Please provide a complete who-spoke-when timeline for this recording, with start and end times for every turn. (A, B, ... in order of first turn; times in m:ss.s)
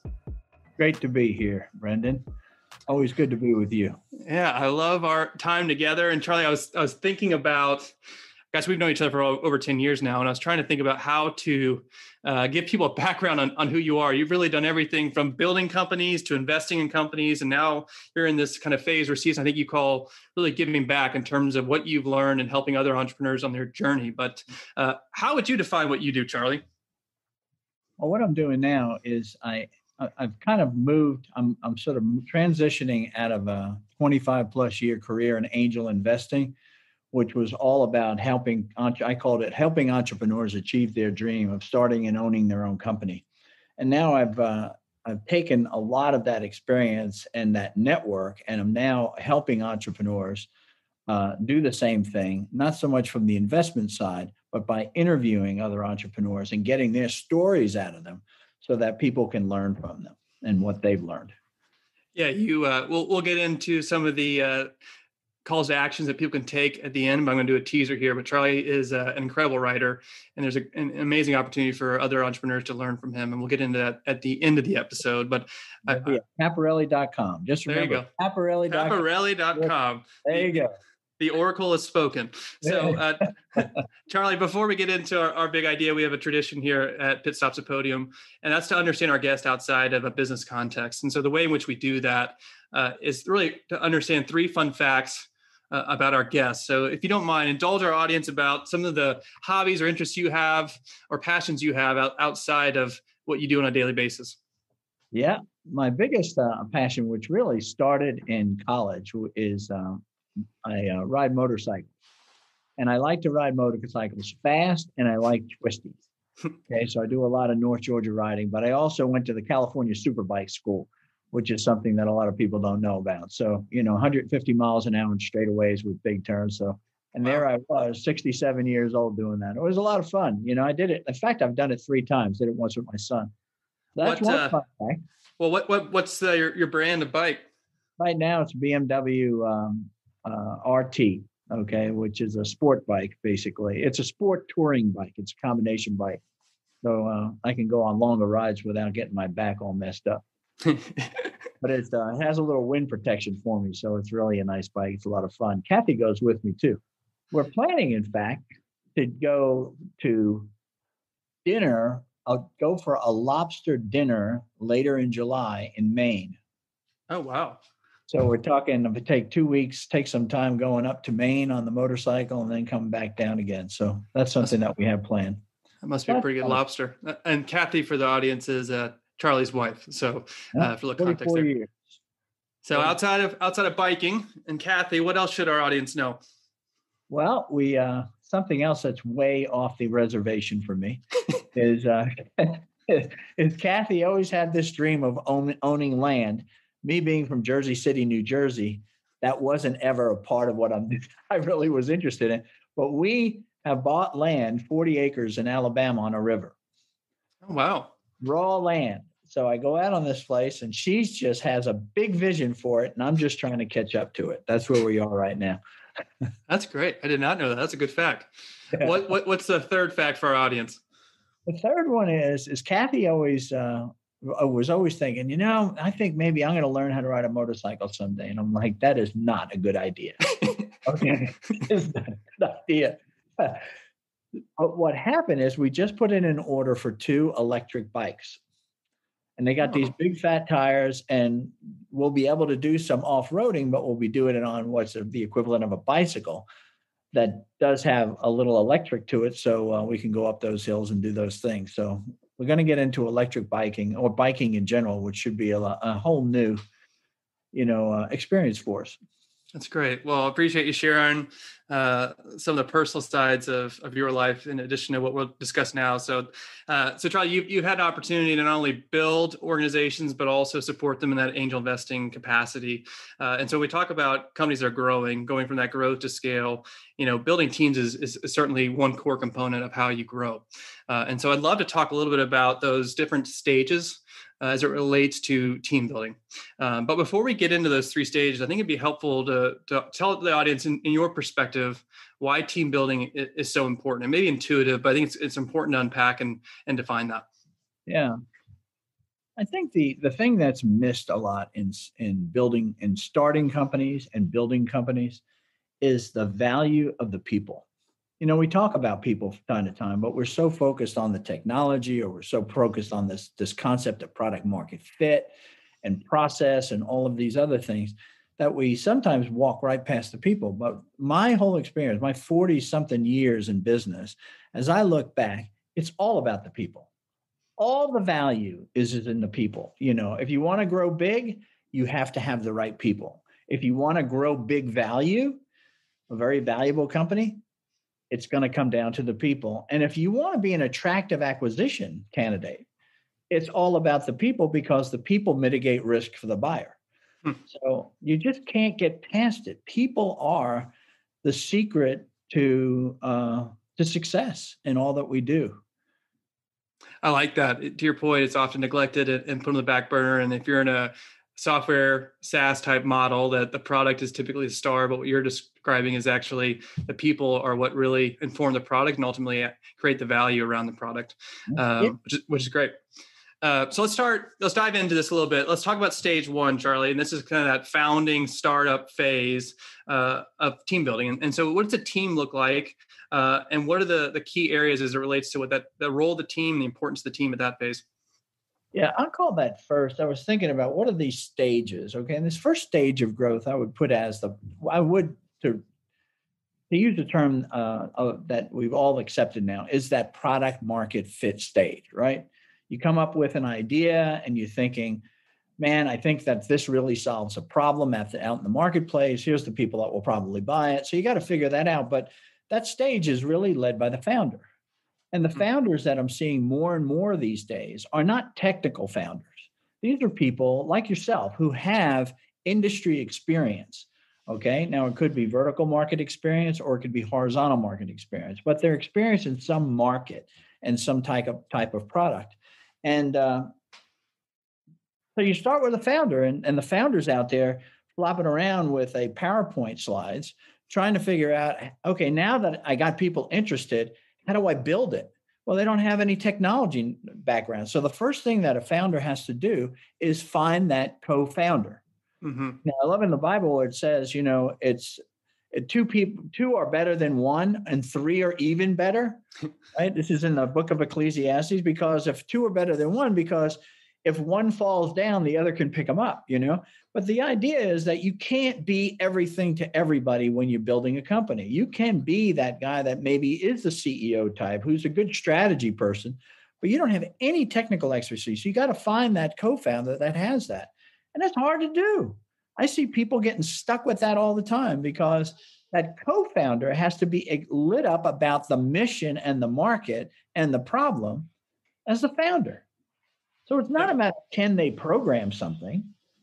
0:00.8-0:02.2 A
0:02.9-0:04.0 A
0:04.3-0:08.0 B
0:08.5-0:26.6 B
0:28.0-0:36.6 A
0:37.1-0:43.2 A
0:43.8-0:50.5 A
0:51.1-1:01.3 A
1:02.2-1:04.7 B
1:05.4-1:16.2 B
1:15.9-1:19.7 A
1:17.7-1:18.1 B
1:18.7-1:20.7 B
1:20.2-1:20.7 A
1:21.2-1:44.4 B
1:22.7-1:23.0 A
1:45.1-1:50.0 A
1:50.6-1:51.9 A
1:52.8-1:56.0 A
1:56.7-2:13.3 A
2:14.0-2:15.0 A
2:14.0-2:14.6 B
2:15.4-2:17.4 B
2:18.0-2:26.2 A
2:26.8-2:30.2 A
2:30.6-2:31.3 B
2:31.6-2:36.8 A
2:37.3-2:38.4 A
2:38.9-2:40.5 A
2:41.4-2:46.4 A
2:47.1-2:47.6 B
2:48.1-2:55.4 A
2:55.8-3:01.5 B
2:56.1-2:56.6 A
3:00.5-3:01.8 A
3:02.6-3:06.2 B
3:07.1-3:26.6 A
3:27.4-3:27.9 B
3:28.2-3:35.6 A
3:36.5-3:40.8 B
3:41.4-3:50.2 A
3:50.8-3:53.7 A
3:54.6-3:58.4 A
3:59.4-4:06.5 A
4:07.1-4:16.6 A
4:17.5-4:19.0 A
4:19.5-4:57.3 B
4:57.9-4:58.2 A
4:59.4-5:05.2 A
5:05.8-5:07.6 A
5:08.2-5:26.9 A
5:27.6-5:35.4 A
5:36.1-5:37.4 A
5:38.1-5:42.6 A
5:43.3-5:46.8 A
5:47.5-5:50.7 A
5:51.2-5:55.6 A
5:57.0-6:12.7 B
6:13.4-6:27.8 B
6:28.7-6:35.6 A
6:36.7-6:45.0 A
6:45.6-6:54.5 A
6:55.1-7:13.5 A
7:15.2-7:31.8 A
7:32.2-7:32.6 B
7:32.6-7:35.0 A
7:35.5-7:39.2 A
7:39.7-8:11.3 A
8:11.9-8:12.6 A
8:13.5-8:15.9 A